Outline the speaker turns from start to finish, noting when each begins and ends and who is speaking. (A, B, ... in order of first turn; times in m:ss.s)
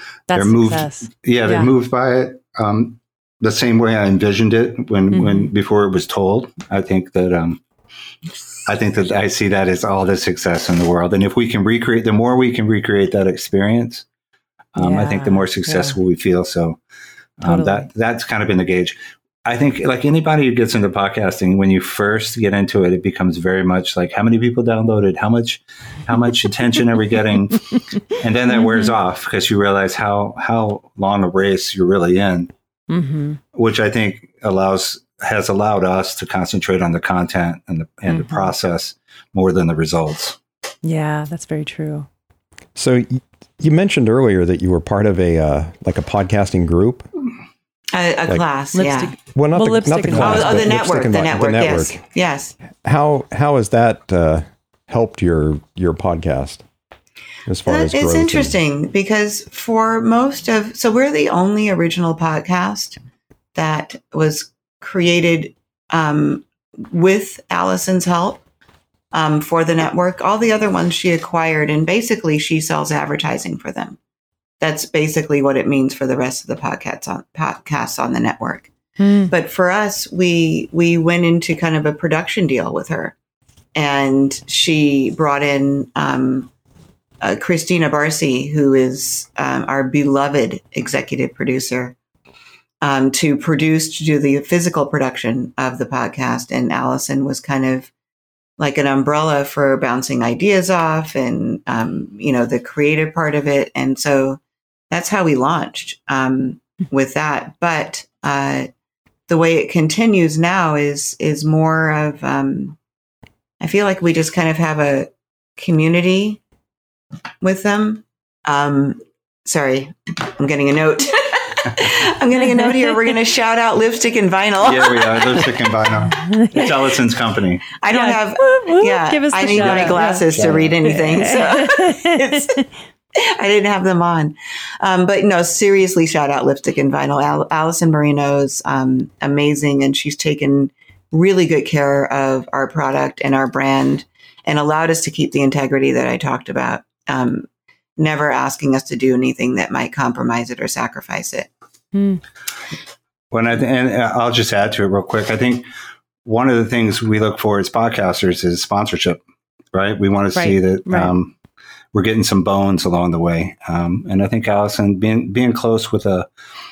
0:00.3-0:01.7 A
0:00.3-0:07.6 B
0:05.1-0:05.5 A
0:08.6-0:14.0 B
0:14.8-0:16.8 B
0:14.8-0:16.0 A
0:17.4-0:32.5 B
0:17.4-0:17.9 A
0:28.6-0:28.9 A
0:32.9-0:33.4 A
0:33.5-0:40.4 B
0:38.1-0:38.5 A
0:40.8-0:42.1 A
0:42.8-0:47.1 C
0:47.9-0:49.2 D
0:48.7-0:50.7 A
0:49.3-0:52.0 C
0:50.1-0:52.5 D
0:52.7-0:56.6 C
0:57.5-0:58.6 C
0:57.6-1:03.0 D
1:03.5-1:08.4 D
1:09.1-1:14.0 D
1:14.6-1:18.7 D
1:19.0-1:19.3 A
1:19.3-1:23.1 D
1:23.7-1:26.5 D
1:27.2-1:32.0 D
1:32.8-1:37.9 D
1:38.6-1:44.4 D
1:44.9-1:48.7 D
1:49.3-1:52.8 D
1:53.6-1:56.4 D
1:57.4-2:05.5 D
2:04.6-2:07.6 B
2:06.1-2:06.7 A
2:07.8-2:12.5 D
2:07.9-2:12.6 A
2:09.5-2:10.8 B
2:13.2-2:31.5 D
2:31.9-2:32.2 A
2:33.3-2:35.6 B
2:36.2-2:39.2 B
2:39.7-2:41.3 B
2:40.3-2:41.1 A
2:41.9-2:46.3 B